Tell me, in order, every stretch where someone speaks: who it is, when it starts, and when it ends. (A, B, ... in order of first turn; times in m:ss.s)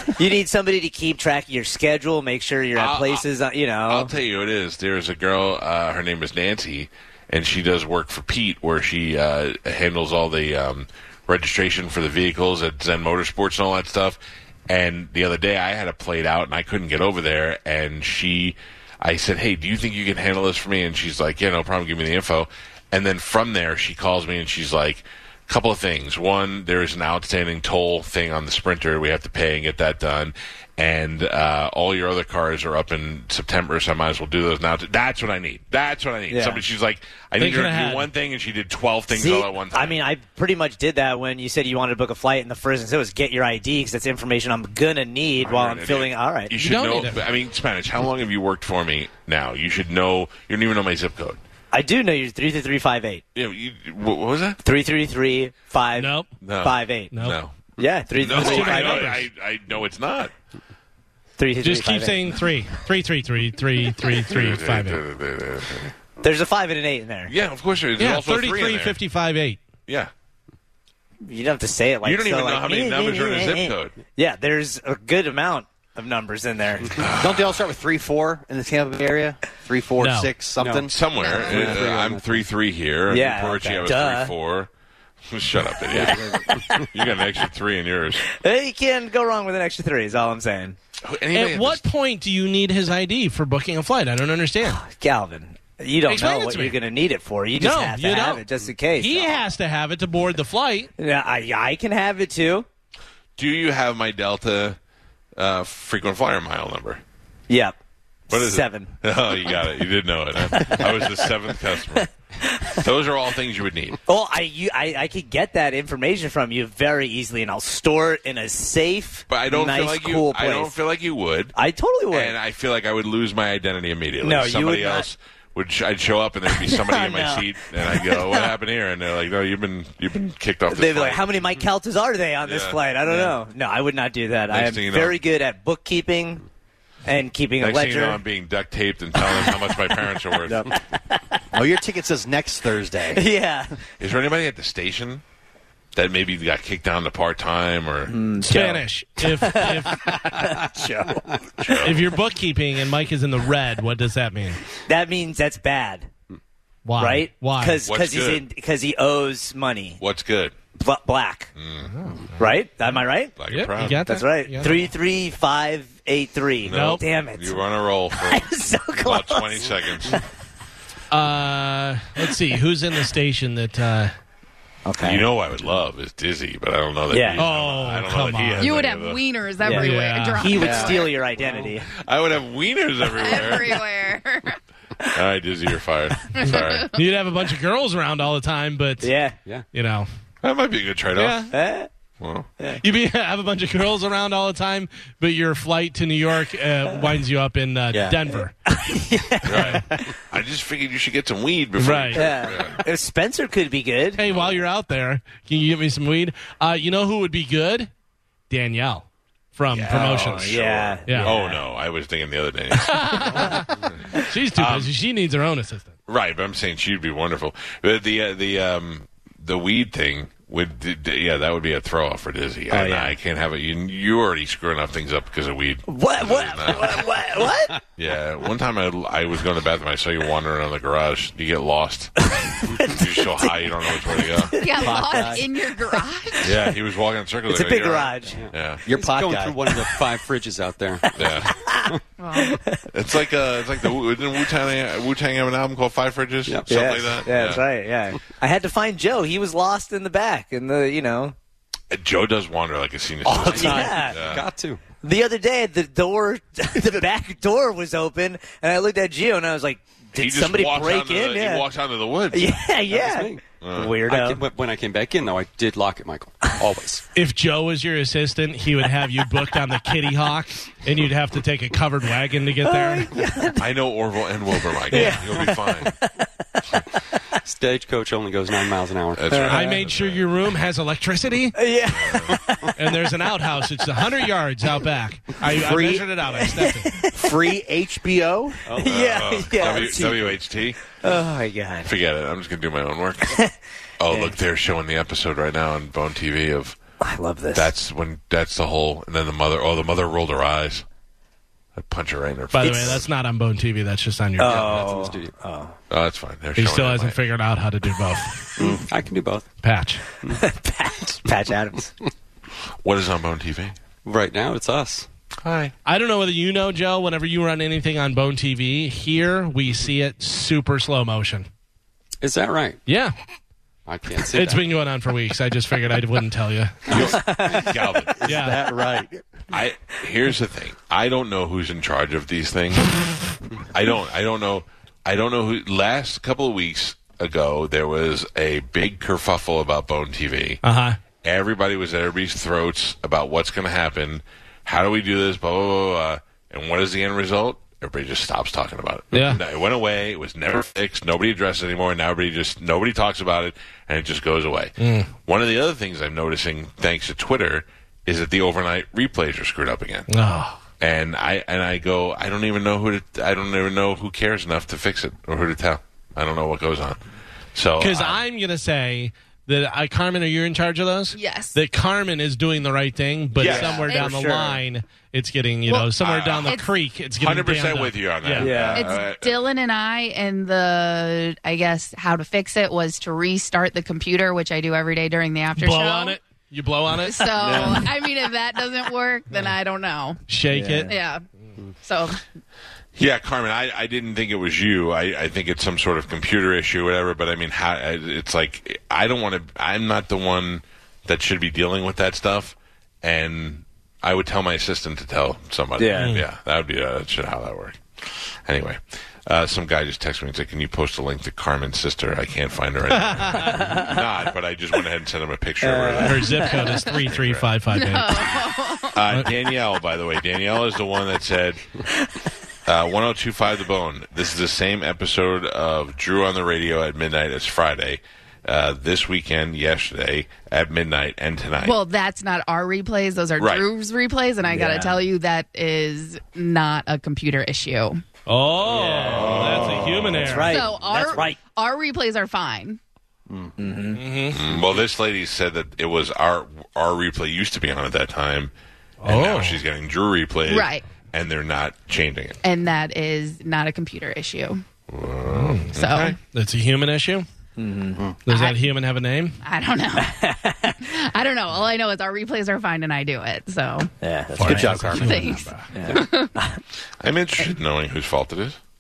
0:00.1-0:04.1 A
0:02.8-0:03.2 B
0:03.9-0:40.0 B
0:36.3-0:36.6 A
0:37.4-0:38.1 C
0:39.1-0:46.5 A
0:45.4-0:51.4 B
0:46.6-0:47.2 C
0:51.7-0:53.2 A
0:53.4-0:54.6 B
0:54.6-0:56.1 A
0:56.0-0:56.3 C
0:56.4-0:57.5 B
0:56.6-0:57.1 A
0:57.1-0:57.4 C
0:57.8-0:59.1 A
0:58.2-1:00.3 B
0:58.3-0:59.2 C
1:01.4-1:02.3 A
1:01.6-1:05.0 C
1:04.3-1:05.9 B
1:06.2-1:07.3 A
1:07.3-1:09.0 B
1:08.0-1:09.6 C
1:11.3-1:17.0 A
1:12.0-1:14.0 B
1:17.0-1:17.6 B
1:17.1-1:21.0 D
1:20.0-1:20.3 C
1:20.6-1:22.5 E
1:20.9-1:24.7 B
1:21.2-1:21.6 F
1:21.5-1:21.9 D
1:23.1-1:24.3 A
1:25.3-1:28.2 B
1:25.9-1:27.2 A
1:26.1-1:26.6 E
1:28.2-1:30.8 A
1:31.0-1:31.8 B
1:31.3-1:34.8 C
1:34.6-1:39.4 A
1:36.1-1:36.8 C
1:37.6-1:38.4 C
1:39.0-1:40.9 C
1:41.0-1:42.7 A
1:43.4-1:44.8 B
1:45.4-1:47.0 B
1:47.5-1:47.8 A
1:48.3-1:48.9 A
1:48.3-1:52.1 B
1:50.5-1:51.3 A
1:52.0-1:52.8 A
1:52.7-1:54.0 B
1:54.1-2:00.7 A
1:59.3-2:01.6 B
2:01.6-2:02.4 A
2:02.1-2:11.4 B
2:04.2-2:05.1 A
2:06.5-2:08.5 A
2:10.7-2:16.4 A
2:12.4-2:12.8 B
2:14.5-2:15.2 B
2:17.1-2:18.2 A
2:17.6-2:20.7 B
2:19.2-2:19.6 A
2:20.5-2:20.7 D
2:21.0-2:21.4 A
2:21.5-2:23.2 D
2:23.1-2:23.8 A
2:24.0-2:25.2 B
2:26.0-2:28.1 B
2:28.1-2:30.9 A
2:28.4-2:30.1 C
2:30.1-2:31.2 D
2:31.6-2:32.1 B
2:31.8-2:34.6 C
2:34.9-2:36.1 A
2:36.8-2:37.8 C
2:37.0-2:40.0 A
2:37.8-2:38.4 B
2:40.0-2:40.5 B
2:40.8-2:41.5 A
2:41.6-2:41.9 B
2:41.9-2:42.3 C
2:42.4-2:43.4 A
2:43.4-2:44.8 B
2:43.5-2:44.9 C
2:44.1-2:47.6 A
2:46.7-2:48.5 B
2:46.7-2:47.0 C
2:48.1-2:50.2 A
2:49.0-2:50.2 B
2:51.1-2:54.1 C
2:54.9-2:55.2 A
2:55.0-2:59.2 B
2:57.1-2:57.4 A
2:57.4-2:58.8 C
2:58.6-3:01.3 F
2:59.6-3:01.9 A
2:59.6-3:00.6 C
3:00.5-3:01.0 D
3:02.0-3:03.8 B
3:03.0-3:04.6 F
3:05.1-3:06.9 B
3:06.3-3:07.0 F
3:06.5-3:09.1 C
3:09.0-3:09.4 A
3:09.7-3:10.1 C
3:10.4-3:11.5 B
3:11.2-3:11.5 C
3:11.5-3:11.9 A
3:12.2-3:12.5 B
3:12.8-3:18.5 C
3:17.9-3:18.2 D
3:18.7-3:20.0 A
3:19.5-3:22.8 B
3:19.5-3:19.8 C
3:21.8-3:22.2 C
3:22.1-3:24.2 A
3:24.2-3:27.9 C
3:24.3-3:24.6 B
3:28.5-3:31.4 C
3:29.7-3:33.8 B
3:29.9-3:31.6 A
3:32.9-3:35.9 C
3:34.6-3:34.9 B
3:36.1-3:47.1 B
3:42.7-3:43.2 A
3:45.9-3:47.8 A
3:48.0-3:52.3 B
3:52.2-3:55.4 A
3:52.9-3:54.6 B
3:54.6-3:56.6 F
3:54.8-3:55.4 D
3:56.4-3:58.8 B
3:57.5-3:58.4 A
3:58.3-4:02.0 E
3:58.9-3:59.9 D
4:01.1-4:02.9 A
4:01.2-4:01.5 B
4:02.2-4:02.6 F
4:02.9-4:07.6 B
4:06.5-4:07.0 E
4:06.7-4:11.4 A
4:11.9-4:14.4 B
4:13.3-4:13.9 D
4:13.4-4:14.8 E
4:13.5-4:14.2 A
4:15.0-4:21.6 A
4:20.2-4:22.6 B
4:22.3-4:24.4 A
4:22.9-4:23.4 E
4:23.6-4:24.0 B
4:24.0-4:27.0 E
4:27.2-4:33.1 C
4:32.6-4:33.6 A
4:33.6-4:35.9 B
4:34.9-4:36.3 A
4:34.9-4:35.5 E
4:37.4-4:39.5 E
4:39.2-4:40.3 B
4:39.3-4:39.8 A
4:39.5-4:41.6 C
4:41.6-4:43.0 A
4:41.9-4:42.4 B
4:42.8-4:47.0 C
4:43.8-4:44.2 A
4:45.5-4:46.1 D
4:46.3-4:47.4 A
4:47.1-4:48.6 D
4:48.7-4:50.3 E
4:48.7-4:50.4 A
4:48.8-4:50.9 B
4:50.9-4:51.9 A
4:51.8-4:53.4 B
4:54.0-4:56.8 B
4:54.1-4:54.4 A
4:57.0-4:57.7 A
4:57.6-5:00.8 B
5:01.8-5:03.0 B
5:02.5-5:04.7 C
5:02.6-5:03.0 A
5:04.4-5:05.4 E
5:04.4-5:05.8 A
5:05.9-5:07.2 B
5:06.6-5:08.5 C
5:08.9-5:09.5 E
5:09.6-5:10.0 C
5:10.3-5:11.9 A
5:12.8-5:13.8 B
5:14.0-5:15.1 E
5:15.4-5:15.7 B
5:15.8-5:21.5 C
5:22.2-5:22.8 E
5:22.9-5:23.2 C
5:23.8-5:24.8 E
5:24.3-5:27.0 C
5:26.9-5:27.7 E
5:26.9-5:28.2 B
5:27.1-5:27.7 A
5:28.2-5:29.2 D
5:28.2-5:28.7 C
5:29.5-5:33.2 B
5:33.7-5:40.6 B
5:40.6-5:41.0 C
5:41.2-6:00.1 B
5:49.1-5:49.4 C
5:54.8-5:55.1 C
6:00.1-6:00.6 C
6:00.8-6:07.0 B
6:07.6-6:08.2 B
6:07.8-6:18.6 C
6:11.1-6:11.6 F
6:13.4-6:14.1 B
6:13.4-6:14.6 A
6:13.9-6:14.2 F
6:15.7-6:15.9 F
6:16.0-6:16.6 B
6:17.2-6:19.4 B
6:18.4-6:18.8 A
6:18.7-6:26.2 F
6:25.6-6:27.4 C
6:27.0-6:30.2 F
6:27.4-6:27.7 A
6:27.4-6:27.8 D
6:30.3-6:30.9 C
6:30.9-6:31.2 F
6:31.8-6:32.2 F
6:33.0-6:57.5 B
6:45.8-6:46.2 A
6:46.0-6:46.2 C
6:52.9-6:53.7 C
6:53.5-6:54.0 A
6:55.6-6:56.2 A
6:56.0-6:58.3 C
6:57.7-6:59.0 F
6:58.9-7:01.6 B
7:02.7-7:11.8 B
7:11.6-7:18.0 F
7:13.4-7:13.7 B
7:14.4-7:15.0 A
7:18.3-7:20.6 C
7:18.6-7:21.4 A
7:18.8-7:20.5 B
7:20.5-7:22.8 F
7:23.3-7:23.5 D
7:23.6-7:24.0 A
7:24.0-7:24.4 C
7:24.3-7:28.5 B
7:29.0-7:29.6 C
7:29.0-7:32.4 B
7:30.5-7:30.8 F
7:32.4-7:34.6 F
7:34.9-7:36.2 B
7:35.3-7:37.3 C
7:35.8-7:36.2 F
7:37.6-7:38.0 A
7:38.3-7:39.4 C
7:38.3-7:38.6 F
7:39.4-7:43.9 F
7:40.0-7:40.8 A
7:44.0-7:45.0 A
7:44.4-7:45.7 C
7:44.4-7:45.2 D
7:45.0-7:46.4 F
7:45.7-7:46.6 A
7:47.0-7:48.6 B